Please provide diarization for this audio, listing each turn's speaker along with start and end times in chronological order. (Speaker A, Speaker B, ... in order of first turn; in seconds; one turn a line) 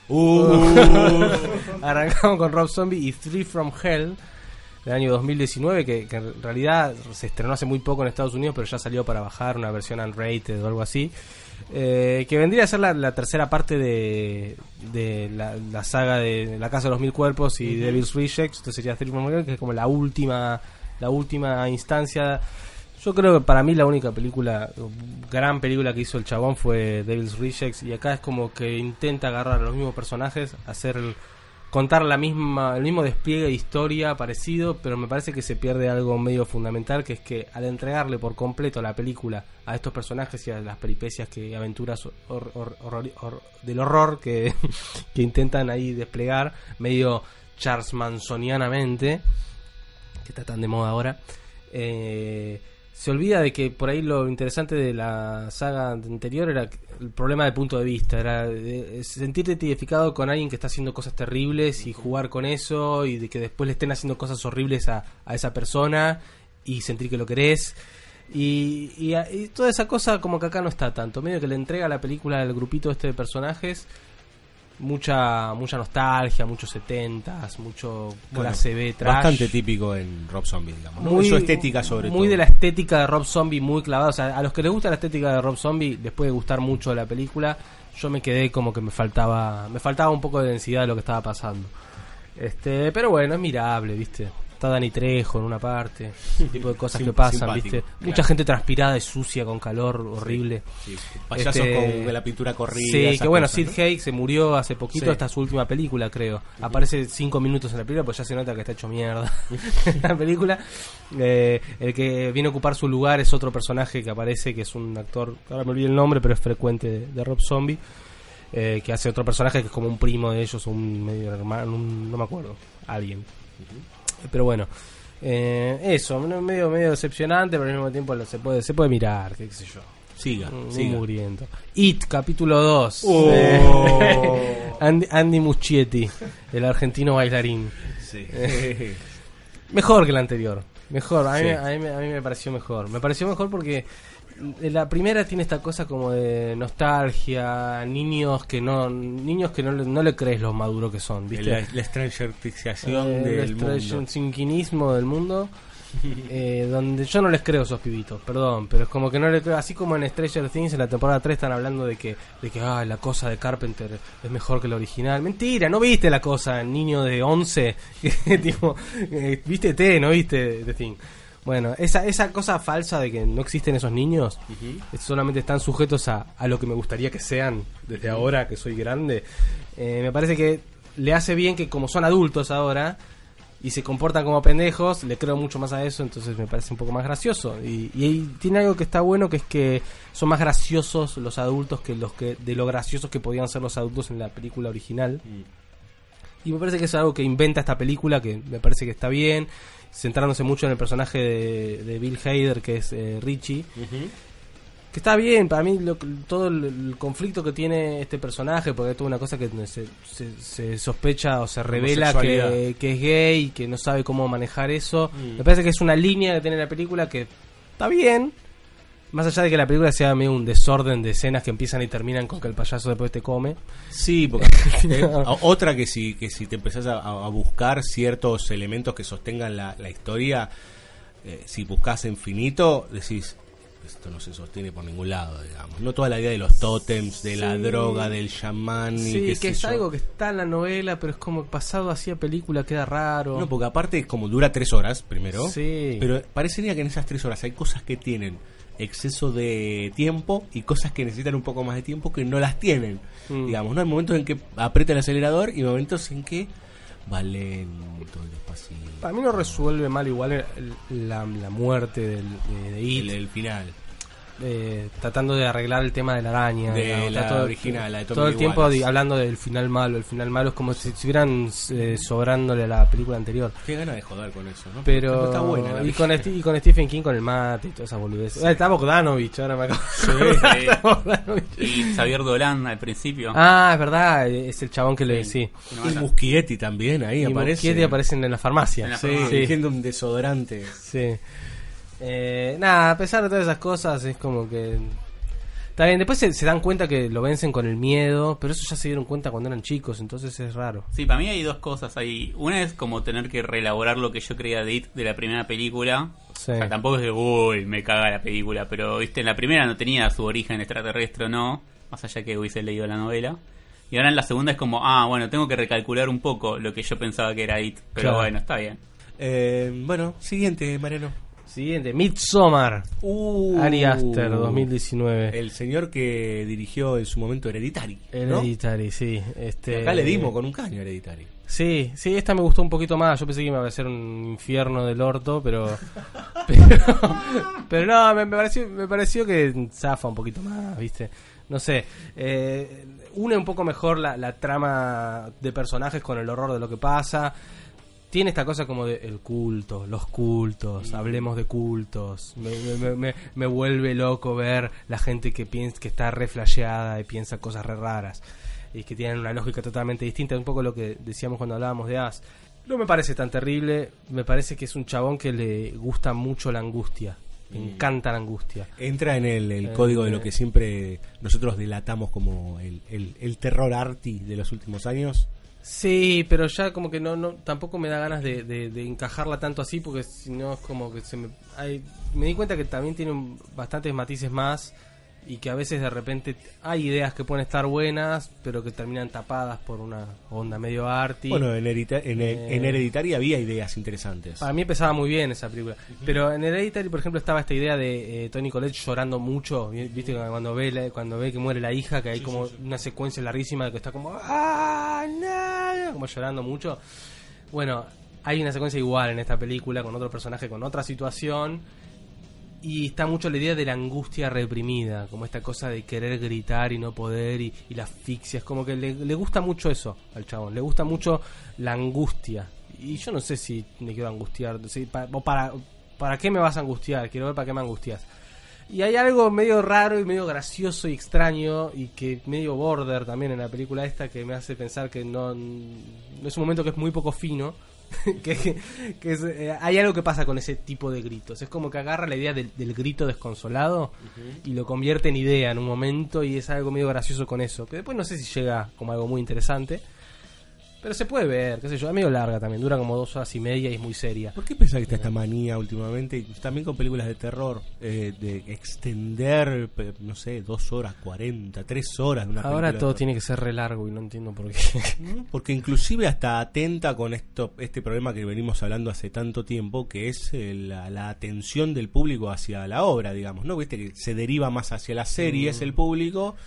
Speaker A: 0.1-1.6
Speaker B: 0.3-4.2
Speaker B: 4.8-11.1
Speaker B: 11.7-22.4
Speaker A: 17.6-18.0
Speaker B: 23.0-31.2
Speaker B: 31.7-49.2
Speaker B: 50.2-51.2
Speaker B: 51.7-67.8
Speaker A: 61.8-62.1
Speaker B: 68.3-73.9
Speaker B: 74.8-79.5
Speaker A: 78.3-82.4
Speaker B: 81.0-91.7
Speaker B: 92.4-100.6
Speaker A: 96.4-98.3
Speaker A: 100.2-103.8
Speaker B: 101.3-102.1
Speaker B: 102.7-117.8
Speaker A: 104.9-105.2
Speaker B: 118.5-123.3
Speaker B: 124.3-124.7
Speaker B: 125.2-129.9
Speaker A: 130.2-131.0
Speaker B: 130.5-138.6
Speaker A: 133.0-134.8
Speaker A: 137.9-139.0
Speaker B: 139.7-151.6
Speaker A: 151.3-154.1
Speaker B: 152.8-155.5
Speaker A: 156.0-156.3
Speaker B: 156.3-183.0
Speaker A: 174.5-174.8
Speaker A: 177.9-178.3
Speaker B: 183.6-195.2
Speaker B: 196.4-203.7
Speaker A: 203.8-204.1
Speaker B: 204.9-218.3
Speaker A: 211.7-212.6
Speaker A: 215.1-215.4
Speaker B: 219.1-223.6
Speaker A: 223.9-230.5
Speaker B: 224.4-225.3
Speaker A: 231.2-239.8
Speaker B: 237.3-238.1
Speaker B: 239.0-243.5
Speaker A: 243.3-256.5
Speaker B: 245.4-246.1
Speaker B: 253.3-253.6
Speaker A: 257.1-259.6
Speaker B: 259.0-263.1
Speaker A: 262.9-263.8
Speaker B: 264.4-273.6
Speaker A: 266.7-268.9
Speaker A: 273.6-276.3
Speaker B: 274.9-282.0
Speaker A: 280.0-280.5
Speaker C: 280.3-280.8
Speaker C: 281.6-283.4
Speaker B: 283.3-285.5
Speaker C: 285.1-286.1
Speaker A: 285.8-288.0
Speaker B: 287.2-289.6
Speaker C: 288.8-289.5
Speaker A: 288.9-290.8
Speaker B: 290.8-291.2
Speaker B: 292.0-295.0
Speaker B: 295.8-300.9
Speaker C: 300.9-313.4
Speaker B: 306.4-306.7
Speaker C: 313.9-318.8
Speaker B: 318.0-318.3
Speaker A: 319.2-321.2
Speaker B: 321.5-322.9
Speaker A: 323.0-324.7
Speaker B: 323.5-325.4
Speaker A: 325.3-328.5
Speaker B: 328.1-330.3
Speaker A: 329.7-331.3
Speaker B: 331.5-335.9
Speaker B: 336.4-347.3
Speaker B: 348.1-358.2
Speaker A: 350.8-351.3
Speaker B: 358.7-368.7
Speaker A: 367.5-367.9
Speaker A: 368.8-375.3
Speaker B: 369.7-370.3
Speaker B: 375.6-391.4
Speaker A: 391.3-394.5
Speaker B: 392.2-392.8
Speaker B: 394.4-406.8
Speaker A: 399.8-400.1
Speaker A: 402.1-402.6
Speaker B: 407.5-411.6
Speaker B: 412.6-428.1
Speaker B: 428.7-449.8
Speaker A: 444.0-444.4
Speaker B: 450.8-454.4
Speaker A: 454.4-463.0
Speaker B: 462.4-465.0
Speaker A: 465.0-476.4
Speaker B: 475.2-475.7